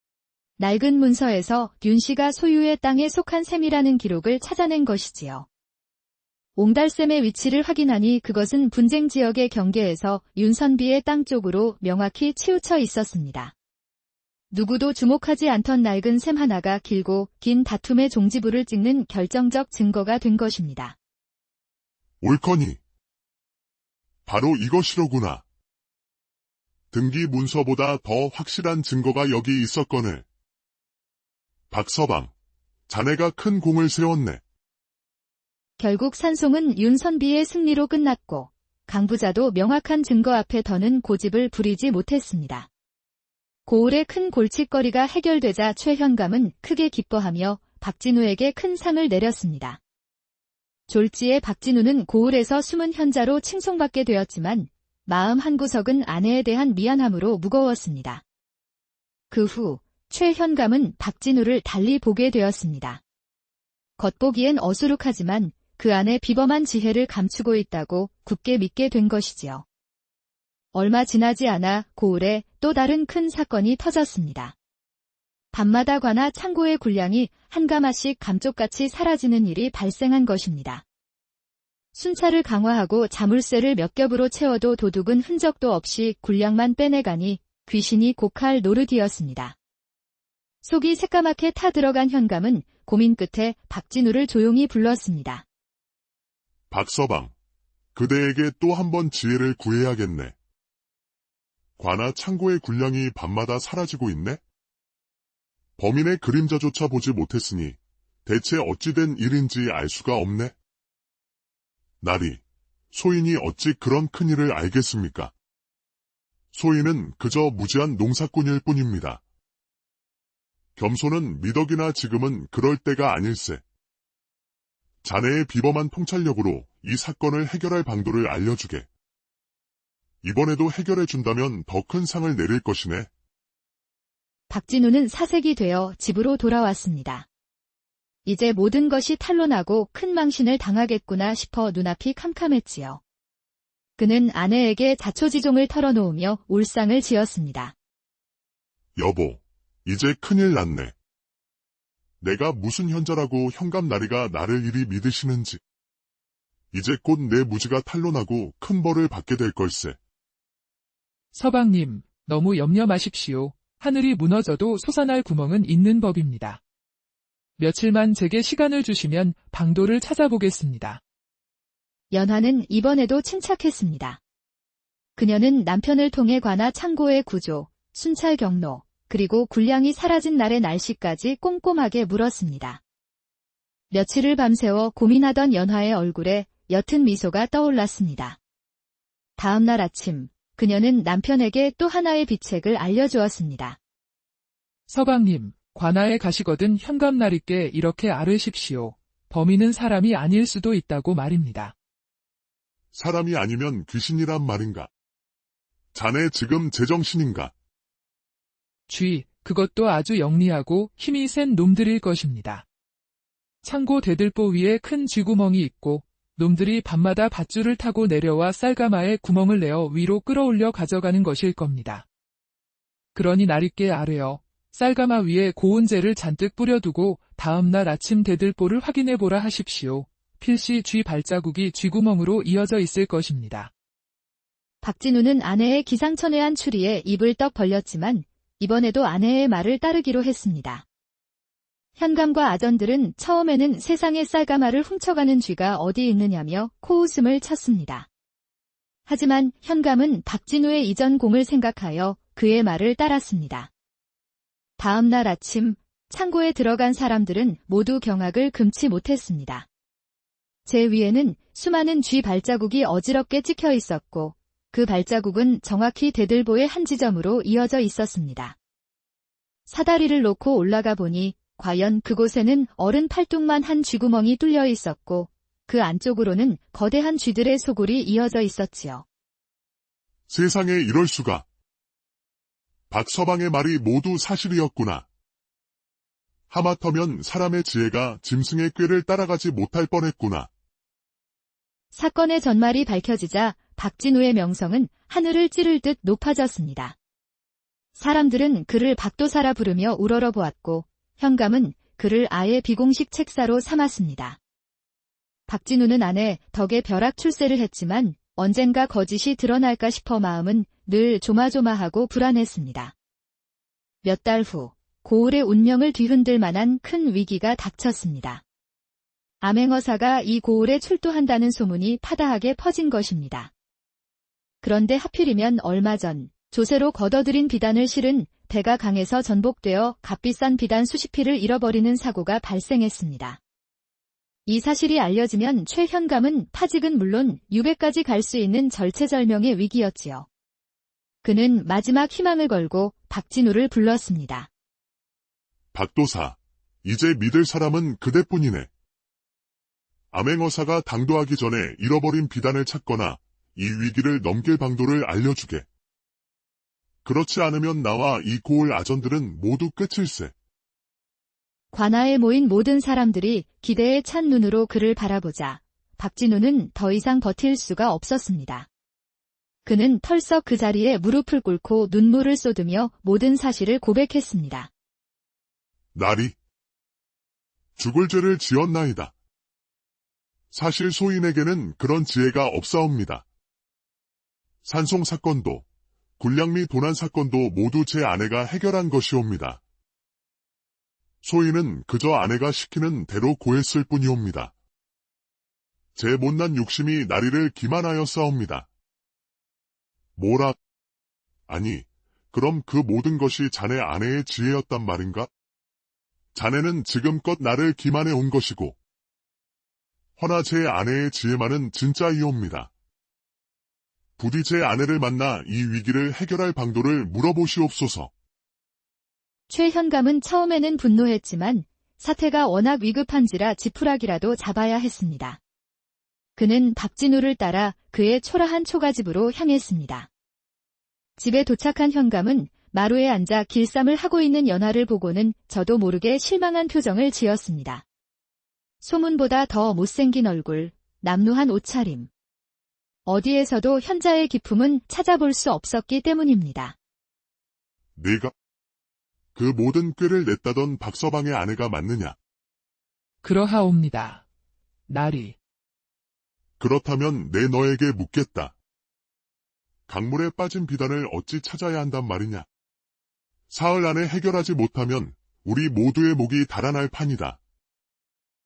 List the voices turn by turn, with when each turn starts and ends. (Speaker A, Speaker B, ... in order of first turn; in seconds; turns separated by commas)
Speaker A: 0.6-5.5, Speaker A: 6.5-13.5, Speaker A: 14.5-20.9, Speaker B: 22.2-22.8, Speaker B: 24.2-25.4, Speaker B: 26.9-30.2, Speaker B: 31.7-32.3, Speaker B: 32.9-34.4, Speaker A: 35.8-42.7, Speaker A: 43.6-49.8, Speaker A: 50.9-58.2, Speaker A: 59.3-63.0, Speaker A: 64.0-69.6, Speaker A: 70.7-74.5, Speaker A: 75.5-80.8, Speaker A: 81.9-89.5, Speaker A: 90.6-95.4, Speaker B: 96.7-97.3, Speaker B: 97.9-100.3, Speaker B: 101.8-104.4, Speaker B: 105.8-110.5, Speaker B: 112.0-112.4, Speaker B: 112.9-115.3, Speaker B: 116.5-119.2, Speaker B: 120.8-123.6, Speaker B: 125.0-128.9, Speaker B: 130.2-133.1, Speaker A: 134.5-137.3, Speaker A: 138.2-143.0, Speaker A: 144.0-147.7, Speaker B: 149.0-150.9, Speaker B: 152.2-155.6, Speaker B: 156.7-160.0, Speaker C: 161.3-166.6, Speaker C: 167.6-171.0, Speaker A: 172.1-174.2, Speaker A: 175.2-182.8, Speaker A: 183.9-188.4, Speaker A: 189.4-193.8, Speaker C: 194.9-201.7, Speaker B: 202.9-204.9, Speaker B: 205.9-207.5, Speaker C: 208.9-212.6, Speaker C: 213.6-222.1, Speaker C: 223.1-233.7, Speaker A: 234.8-240.8, Speaker A: 242.0-248.1, Speaker A: 249.1-253.7, Speaker A: 254.8-259.6, Speaker A: 260.6-268.6, Speaker A: 269.7-279.0, Speaker B: 280.3-281.4, Speaker B: 282.9-285.1, Speaker B: 286.5-290.5, Speaker A: 291.9-296.9, Speaker A: 297.9-304.4, Speaker A: 305.5-312.9, Speaker A: 314.0-318.4, Speaker A: 319.4-323.5, Speaker A: 324.6-333.4, Speaker A: 334.4-340.2, Speaker A: 341.2-344.5, Speaker B: 345.7-348.7, Speaker B: 350.1-355.7, Speaker B: 357.0-360.3, Speaker A: 361.7-368.7, Speaker A: 369.6-374.7, Speaker B: 375.9-376.4, Speaker B: 377.8-379.1, Speaker B: 380.5-383.2, Speaker B: 384.6-385.6, Speaker B: 386.2-389.6, Speaker B: 391.2-394.5, Speaker B: 395.9-398.7, Speaker B: 400.2-400.6, Speaker B: 401.5-405.3, Speaker B: 406.3-408.8, Speaker B: 410.2-412.7, Speaker B: 414.2-418.1, Speaker A: 419.5-425.4, Speaker A: 426.4-430.1, Speaker A: 431.2-437.8, Speaker A: 438.8-442.1, Speaker A: 443.1-446.8, Speaker B: 448.0-448.3, Speaker B: 449.3-452.1, Speaker C: 453.2-454.2, Speaker C: 454.9-455.4, Speaker B: 456.6-458.6, Speaker B: 459.9-462.5, Speaker B: 463.5-467.4